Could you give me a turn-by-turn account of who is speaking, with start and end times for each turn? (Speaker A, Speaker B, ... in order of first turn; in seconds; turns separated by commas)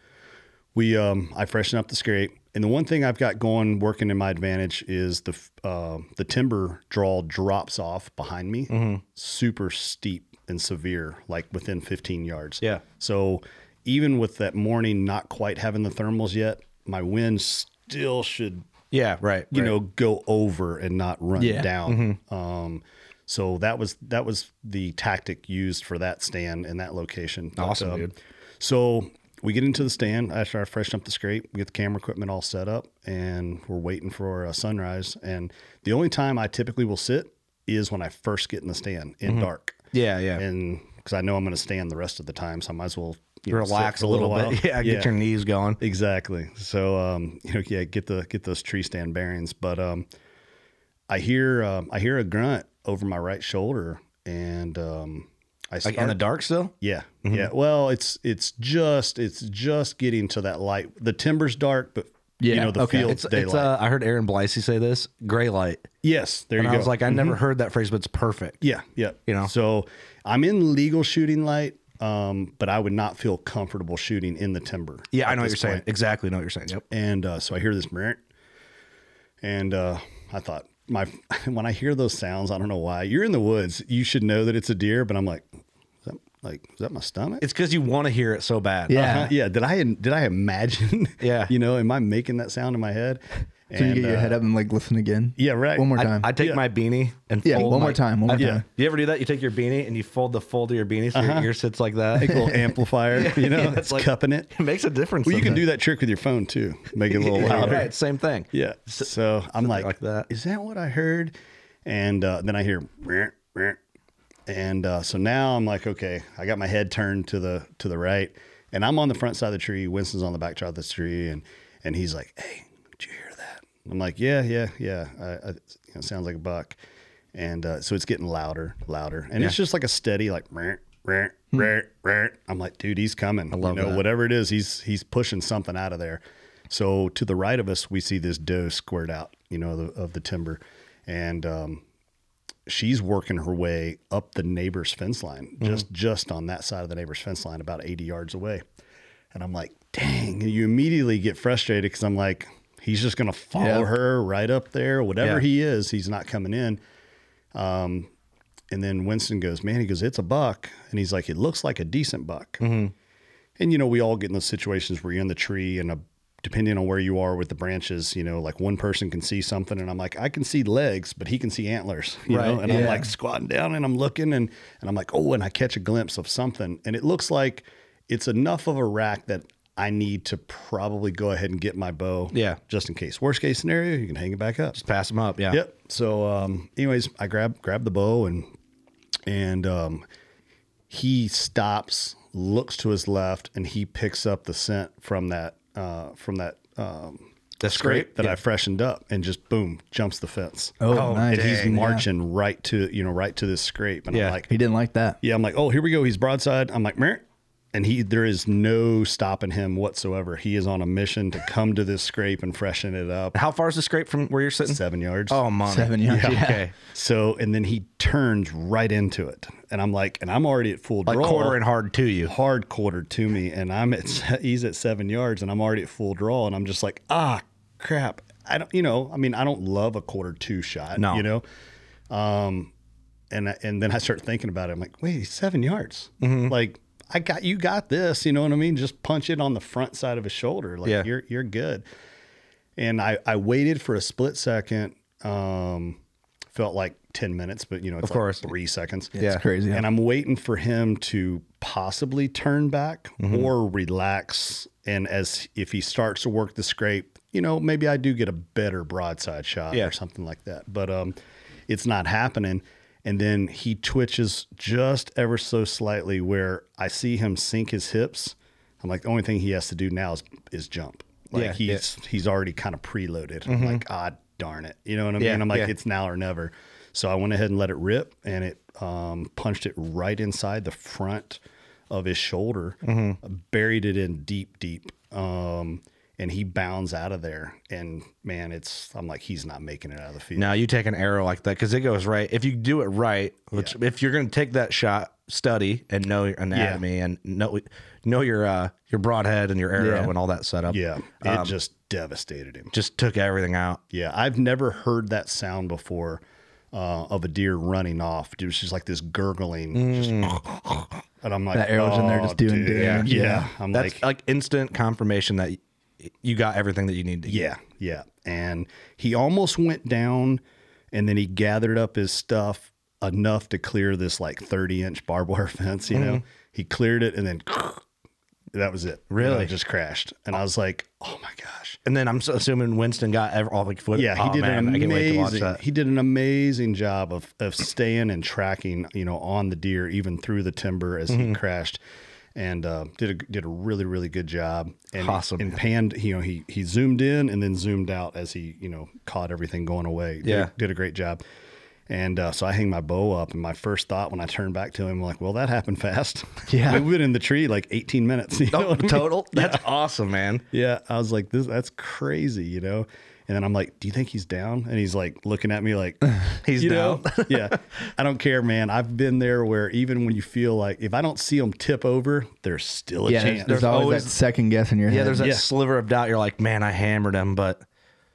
Speaker A: 0.8-18.7, Speaker B: 8.7-9.0, Speaker B: 18.9-19.8, Speaker A: 19.5-39.8, Speaker C: 21.4-21.7, Speaker B: 21.9-22.2, Speaker B: 27.6-28.1, Speaker B: 39.3-40.4, Speaker A: 40.4-45.1, Speaker B: 43.5-45.8, Speaker A: 45.8-50.1, Speaker A: 51.1-56.2, Speaker B: 55.9-56.7, Speaker A: 56.8-63.8, Speaker B: 57.2-57.5, Speaker C: 62.4-63.2, Speaker B: 62.9-65.9, Speaker A: 66.0-67.4, Speaker B: 66.6-68.6, Speaker A: 68.6-75.8, Speaker B: 75.1-76.8, Speaker A: 76.9-78.2, Speaker A: 79.4-85.5, Speaker A: 86.0-87.4, Speaker B: 87.4-89.2, Speaker C: 88.9-89.3, Speaker A: 88.9-94.4, Speaker B: 91.2-91.5, Speaker C: 93.7-96.3, Speaker A: 95.4-96.6, Speaker B: 96.0-102.6, Speaker C: 97.5-98.6, Speaker A: 97.5-98.6, Speaker A: 101.1-101.5, Speaker A: 102.1-104.5, Speaker C: 102.3-102.6, Speaker B: 103.1-105.7, Speaker A: 105.2-107.9, Speaker B: 107.1-109.1, Speaker A: 108.5-111.3, Speaker B: 109.6-110.3, Speaker A: 111.8-113.8, Speaker A: 114.5-126.8, Speaker A: 127.3-141.8, Speaker B: 133.5-134.0, Speaker A: 142.7-148.6, Speaker A: 149.3-156.8, Speaker C: 153.6-153.9, Speaker A: 157.5-158.1, Speaker A: 158.7-162.6, Speaker B: 162.6-162.9, Speaker A: 163.6-184.8, Speaker B: 172.3-173.0, Speaker C: 172.7-173.1, Speaker B: 182.3-182.6, Speaker B: 184.8-185.6, Speaker A: 185.5-188.5, Speaker A: 189.3-190.0, Speaker A: 190.9-204.5, Speaker B: 197.6-198.4, Speaker C: 200.8-202.1, Speaker B: 200.9-201.8, Speaker B: 204.1-204.4, Speaker C: 204.5-205.2, Speaker A: 205.2-213.4, Speaker B: 213.3-216.8, Speaker A: 214.7-215.4, Speaker C: 215.7-216.6, Speaker A: 216.1-221.6, Speaker B: 221.1-222.3, Speaker A: 222.2-231.4, Speaker B: 231.0-231.2, Speaker A: 232.1-232.7, Speaker A: 233.3-241.8, Speaker B: 236.2-236.6, Speaker A: 242.8-246.0, Speaker A: 246.5-261.2, Speaker B: 248.0-248.5, Speaker C: 249.2-249.9, Speaker B: 249.2-249.4, Speaker B: 253.2-253.5, Speaker A: 261.7-290.6, Speaker B: 271.4-271.8, Speaker B: 273.5-273.8, Speaker B: 275.2-275.7, Speaker B: 282.8-283.2, Speaker B: 290.4-301.5, Speaker A: 296.5-296.8, Speaker C: 299.8-300.1, Speaker A: 300.7-302.7, Speaker B: 302.7-303.8, Speaker A: 303.9-314.0, Speaker B: 309.7-310.4, Speaker C: 311.5-313.5, Speaker B: 312.8-317.5, Speaker A: 317.3-320.4, Speaker A: 320.9-327.8, Speaker B: 325.9-326.2, Speaker A: 328.5-331.8, Speaker B: 329.1-329.5, Speaker B: 331.9-335.6, Speaker A: 333.9-341.8, Speaker B: 341.1-341.4, Speaker A: 342.4-351.2, Speaker B: 345.0-345.6, Speaker B: 350.2-350.5, Speaker A: 351.9-359.6, Speaker C: 356.5-356.9, Speaker B: 358.5-360.4, Speaker A: 360.5-374.0, Speaker B: 366.4-367.6, Speaker C: 373.1-375.3, Speaker B: 373.5-374.1, Speaker B: 374.9-377.6, Speaker A: 375.2-375.5